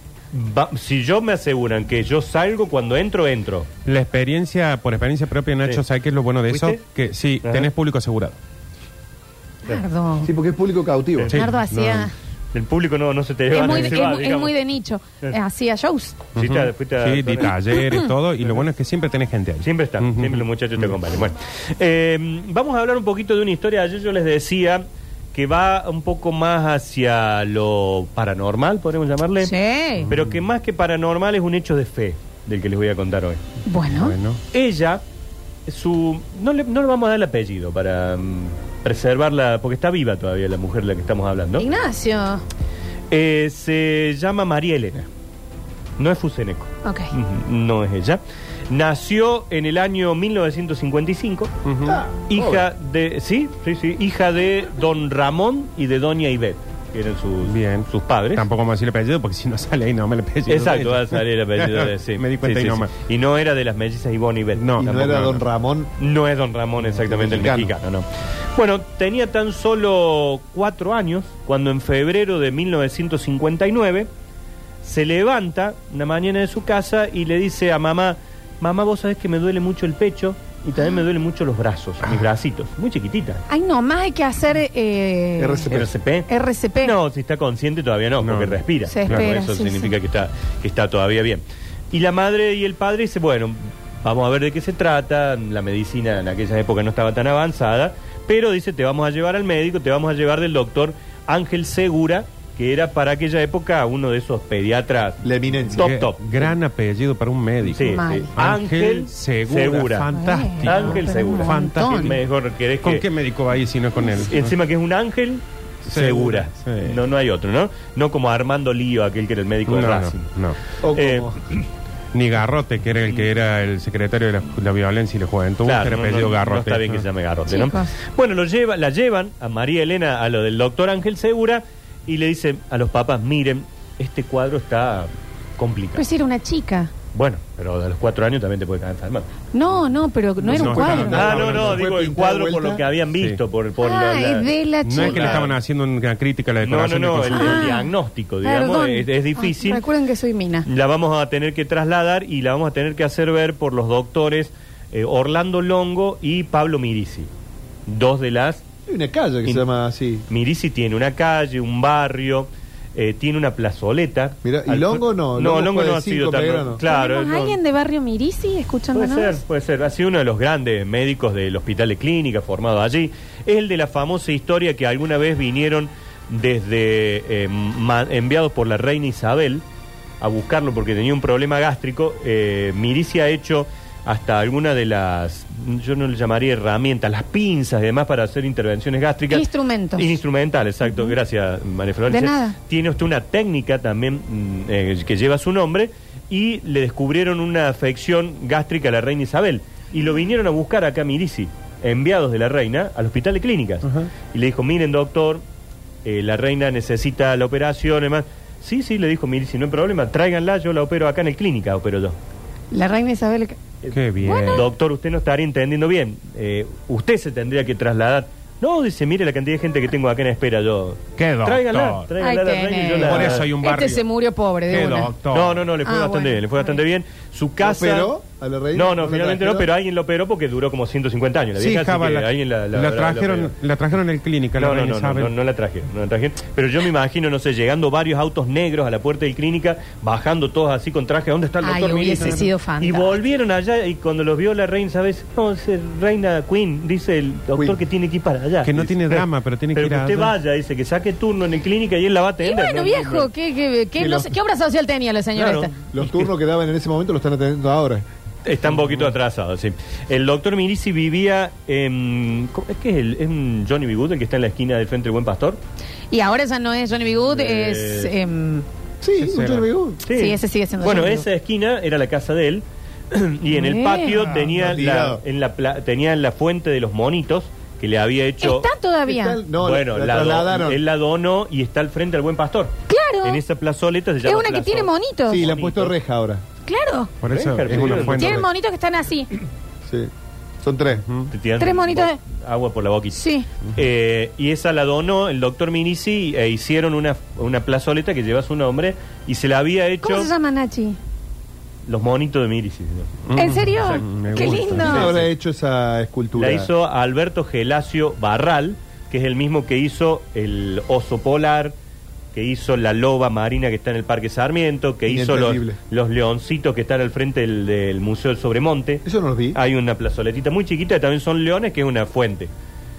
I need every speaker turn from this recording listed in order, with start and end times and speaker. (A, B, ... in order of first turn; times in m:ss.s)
0:00.3-0:03.7 A
0:03.9-0:08.4 B
0:06.5-0:06.8 A
0:07.4-0:07.7 A
0:09.7-0:10.3 C
0:10.2-0:11.4 D
0:11.3-0:12.1 B
0:11.3-0:12.1 C
0:12.5-0:14.6 A
0:13.5-0:16.2 C
0:13.7-0:14.0 B
0:16.4-0:21.0 B
0:16.4-0:17.5 A
0:17.7-0:18.1 C
0:19.6-0:29.5 A
0:29.4-0:30.1 C
0:30.0-0:30.4 B
0:30.1-0:33.4 A
0:33.7-0:34.2 C
0:33.9-0:34.4 B
0:34.5-0:35.0 A
0:35.7-0:41.7 A
0:41.6-0:42.4 C
0:43.1-0:45.1 A
0:46.0-0:51.5 A
0:46.8-0:47.1 C
0:51.7-0:52.0 B
0:51.8-0:52.6 D
0:52.3-0:58.5 A
0:57.4-1:02.9 B
1:00.5-1:05.4 A
1:04.6-1:05.3 B
1:04.8-1:05.9 D
1:06.0-1:14.1 A
1:07.0-1:07.7 D
1:14.8-1:23.4 A
1:23.5-1:25.7 C
1:25.4-1:25.9 D
1:25.7-1:26.3 A
1:26.3-1:27.0 C
1:26.8-1:45.2 A
1:28.2-1:29.3 B
1:28.9-1:29.9 C
1:45.2-1:46.0 D
1:45.8-1:46.5 A
1:45.8-1:52.2 B
1:47.7-1:48.3 C
1:47.7-1:50.1 A
1:50.1-1:52.2 C
1:50.6-1:53.1 A
1:52.8-1:54.6 B
1:54.1-2:00.3 A
1:55.9-1:57.0 B
1:59.7-2:00.6 B
2:00.8-2:01.4 D
2:00.9-2:01.6 A
2:02.1-2:07.0 B
2:05.6-2:16.0 A
2:07.5-2:07.9 C
2:16.0-2:16.9 C
2:17.1-2:19.3 A
2:19.5-2:21.5 C
2:20.4-2:22.8 D
2:20.5-2:21.8 B
2:20.9-2:25.6 A
2:23.8-2:25.4 C
2:24.8-2:27.7 B
2:26.6-2:29.8 A
2:27.3-2:30.7 C
2:30.6-2:37.3 A
2:37.9-2:38.6 A
2:38.9-2:40.2 D
2:40.3-2:47.6 A
2:44.4-2:46.8 D
2:46.8-2:49.4 C
2:48.9-2:59.6 A
3:00.2-3:25.4 A
3:09.3-3:10.2 C
3:10.8-3:11.2 C
3:12.1-3:12.6 C
3:23.8-3:24.1 B
3:26.0-3:32.2 A
3:32.7-3:33.6 C
3:33.9-3:34.7 B
3:34.2-3:34.7 C
3:34.5-3:43.5 A
3:41.2-3:42.1 B
3:42.2-3:45.1 C
3:43.0-3:44.0 B
3:44.7-3:45.6 B
3:45.3-3:48.1 A
3:45.8-3:46.8 C
3:47.6-3:49.7 D
3:48.7-3:53.5 A
3:51.6-3:55.3 B
3:54.6-4:13.3 A
4:01.6-4:03.2 C
4:08.6-4:10.4 B
4:12.4-4:15.7 C
4:14.0-4:14.3 D
4:15.4-4:16.3 A
4:15.9-4:18.0 D
4:18.4-4:25.6 A
4:26.1-4:28.6 C
4:27.3-4:28.1 A
4:29.0-4:30.0 D
4:29.2-4:29.7 B
4:30.0-4:38.7 A
4:30.1-4:31.2 C
4:33.5-4:34.3 C
4:34.4-4:35.2 D
4:38.4-4:39.4 C
4:39.1-4:40.8 D
4:39.6-4:46.0 A
4:42.9-4:43.4 C
4:44.2-4:45.4 C
4:45.3-4:46.4 D
4:46.7-4:47.1 C
4:47.2-4:48.5 B
4:47.3-4:48.4 A
4:47.7-4:48.1 D
4:48.1-4:49.3 C
4:49.9-4:50.1 D
4:50.6-4:51.0 D
4:51.1-4:51.3 B
4:51.3-4:53.2 A
4:51.6-4:52.2 C
4:53.1-4:53.5 C
4:53.7-5:00.3 A
5:00.0-5:01.0 C
5:01.9-5:05.3 A
5:03.3-5:05.2 B
5:03.4-5:05.1 C
5:04.8-5:06.7 D
5:06.4-5:11.8 A
5:12.3-5:22.5 A
5:15.1-5:15.8 D
5:19.0-5:19.6 D